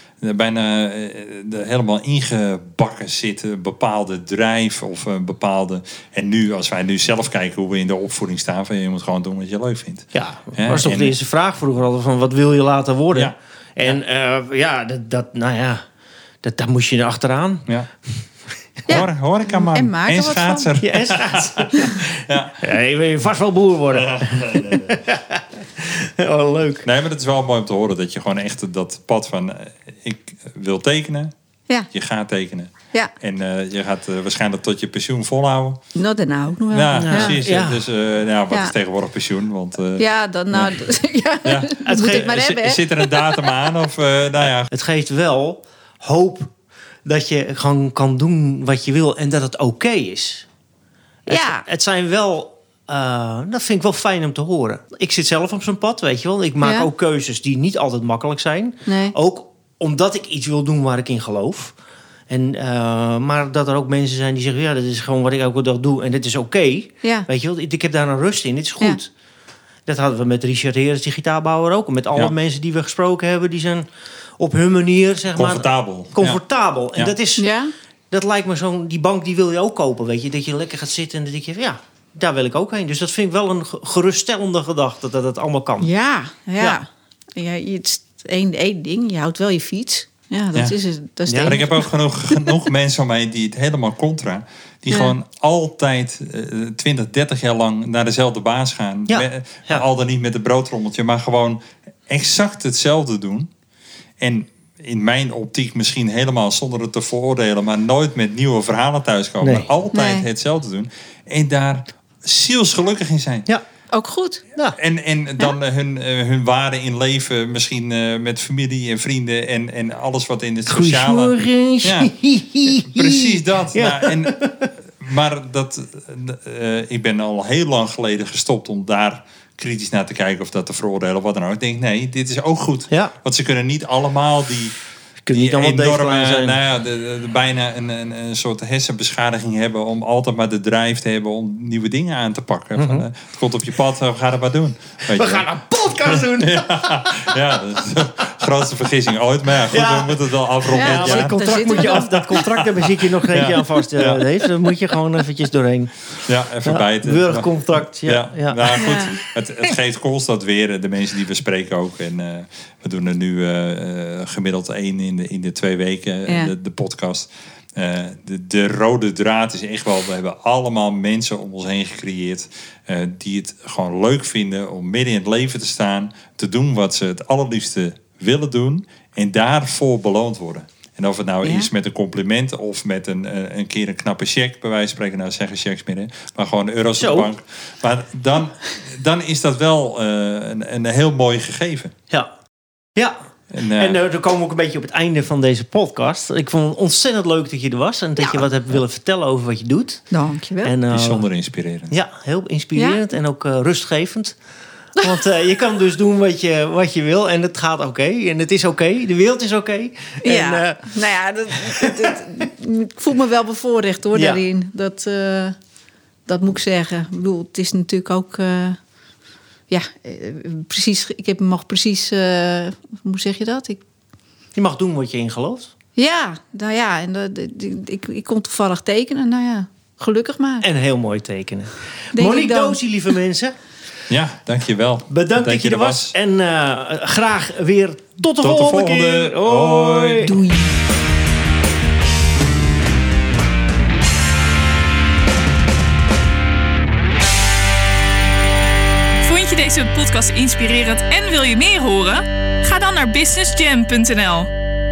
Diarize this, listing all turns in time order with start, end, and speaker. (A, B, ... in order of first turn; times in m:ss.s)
0:00.2-0:11.2 A
0:10.1-0:15.8 B
0:16.4-0:17.6 B
0:18.9-0:20.7 C
0:18.9-0:21.7 A
0:20.8-0:26.8 B
0:22.2-0:22.6 A
0:23.9-0:24.9 A
0:26.8-0:31.3 A
0:31.9-0:35.8 A
0:36.0-0:37.4 C
0:36.7-0:40.8 A
0:37.0-0:37.8 B
0:40.0-0:43.5 C
0:41.4-0:44.7 A
0:41.8-0:42.4 B
0:44.7-0:46.5 B
0:47.0-0:50.5 B
0:51.3-0:51.6 C
0:51.3-1:01.7 B
0:56.6-0:56.9 C
0:58.9-0:59.1 C
1:02.3-1:09.1 B
1:09.8-1:13.8 B
1:14.4-1:17.5 B
1:15.3-1:16.4 A
1:17.4-1:17.7 C
1:18.1-1:25.9 B
1:25.8-1:32.5 C
1:31.3-1:31.6 B
1:31.4-1:43.5 A
1:39.1-1:39.8 B
1:44.2-1:53.5 A
1:49.4-1:49.7 B
1:49.9-1:50.2 C
1:53.9-1:54.4 C
1:54.8-2:02.1 A
2:00.7-2:04.7 B
2:02.7-2:04.4 A
2:05.0-2:14.8 A
2:15.2-2:16.6 B
2:15.3-2:25.5 A
2:22.8-2:23.1 B
2:25.1-2:27.4 B
2:26.3-2:34.3 A
2:29.7-2:35.9 B
2:30.7-2:32.3 C
2:36.3-3:11.9 A
2:36.6-2:39.0 B
2:38.7-2:39.2 C
2:46.3-2:46.5 C
3:01.4-3:01.7 C
3:07.0-3:07.3 B
3:13.5-3:14.0 A
3:13.7-3:20.0 B
3:20.1-3:20.7 C
3:20.6-3:21.2 B
3:20.9-3:22.0 A
3:21.9-3:24.4 B
3:22.8-3:23.0 C
3:25.0-3:31.0 B
3:30.2-3:35.6 C
3:31.6-3:32.2 B
3:34.1-3:34.4 B
3:36.3-3:38.8 C
3:39.7-3:43.8 C
3:44.6-3:45.7 B
3:46.0-3:50.7 C
3:50.6-3:53.5 B
3:52.1-3:52.8 C
3:54.1-3:56.1 A
3:55.1-4:00.4 B
3:58.4-4:00.4 A
4:00.2-4:00.7 C
4:09.2-4:14.5 D